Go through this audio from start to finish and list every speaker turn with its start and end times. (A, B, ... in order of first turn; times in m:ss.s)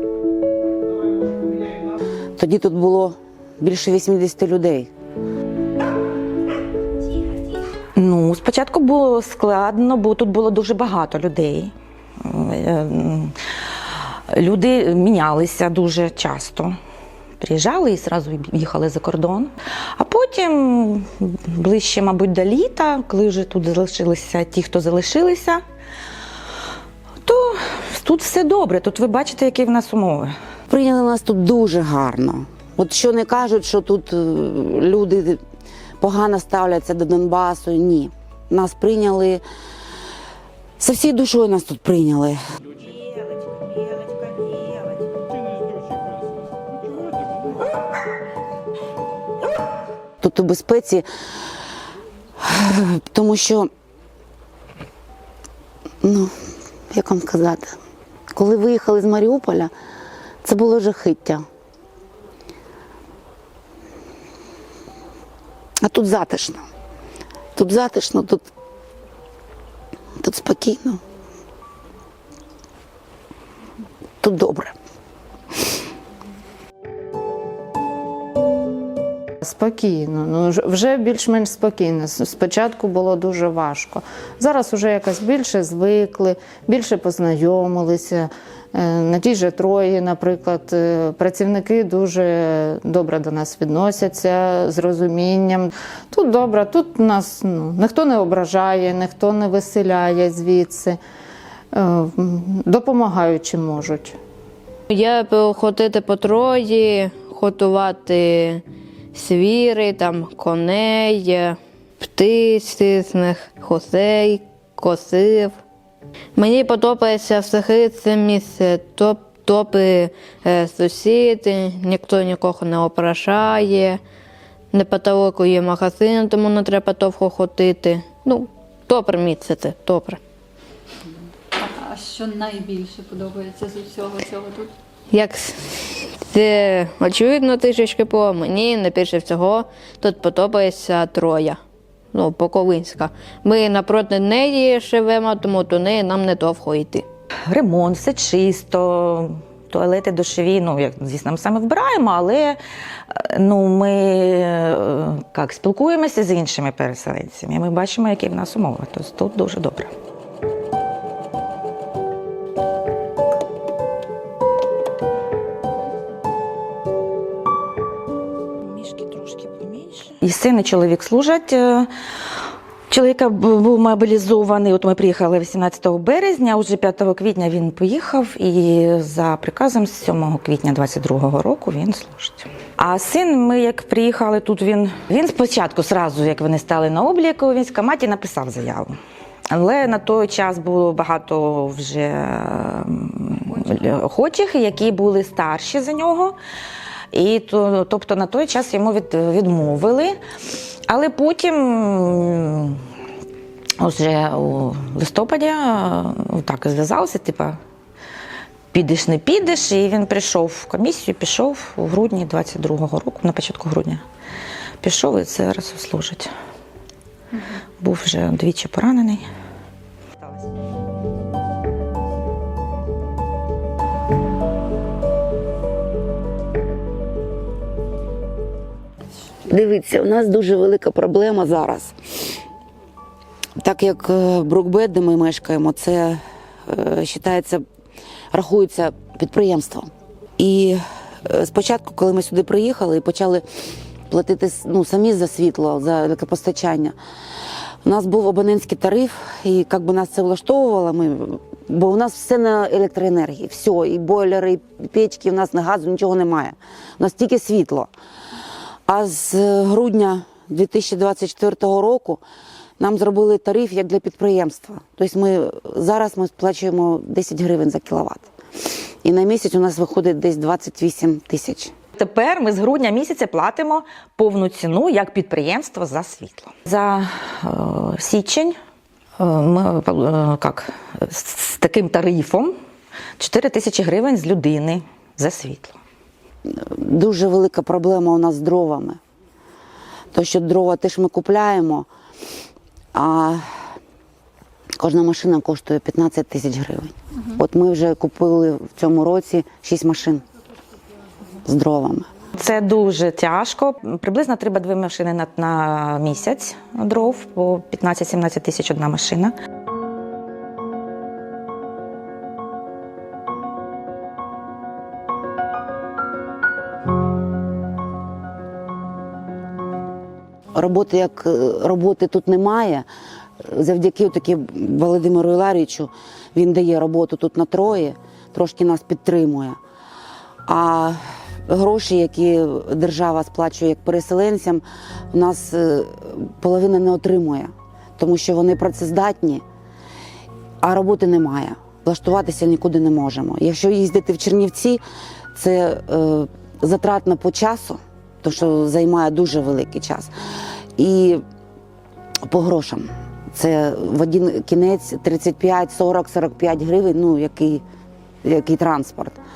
0:02.4-0:04.9 A
0:08.0-0:11.7 B
0:12.2-0:13.3 B
0:14.3-0:16.7 B
0:17.4-0:25.6 B
0:27.2-0:30.3 B
0:30.7-0:35.4 A
0:36.0-0:39.4 A
0:40.8-0:42.4 A
0:42.8-0:44.9 B
0:50.2-0:51.1 A
0:52.4-0:53.7 A
0:56.0-0:56.3 A
0:56.9-0:57.8 A
0:58.3-0:59.7 A
1:00.4-1:01.4 A
1:05.8-1:06.7 A
1:07.6-1:08.5 A
1:10.2-1:11.0 A
1:14.2-1:14.7 A
1:19.4-1:41.0 C
1:41.7-1:44.2 C
1:44.9-1:55.6 D
1:56.4-2:04.0 D
2:04.7-2:10.2 D
2:11.6-2:14.7 E
2:15.1-2:21.6 D
2:22.1-2:27.0 D
2:27.4-2:32.6 B
2:33.1-2:39.9 B
2:48.6-2:51.9 B
2:52.9-3:08.9 B
3:09.5-3:16.4 B
3:17.1-3:20.2 B
3:20.9-3:22.8 B
3:23.8-3:27.6 B
3:28.7-3:34.0 B
3:34.8-3:36.3 B
3:37.8-3:39.2 B
3:49.5-3:51.9 A
3:53.6-3:57.6 A
3:58.3-4:03.4 A
4:04.1-4:07.0 A
4:07.8-4:17.9 A
4:18.9-4:22.2 A
4:22.8-4:28.2 A
4:29.0-4:31.7 A
4:32.0-4:38.5 B
4:39.2-4:42.5 B
4:43.2-4:45.8 B
4:46.5-4:49.0 A
4:50.1-4:51.9 A
4:52.9-4:53.4 A
4:54.8-5:00.2 A
5:01.4-5:02.1 A
5:02.4-5:09.3 B
5:20.5-5:22.8 A
5:23.4-5:29.6 A
5:30.5-5:39.4 A
5:40.6-5:44.8 A
5:45.3-5:50.1 A
5:50.8-5:51.2 A
5:52.2-5:57.6 A
5:58.2-5:59.2 A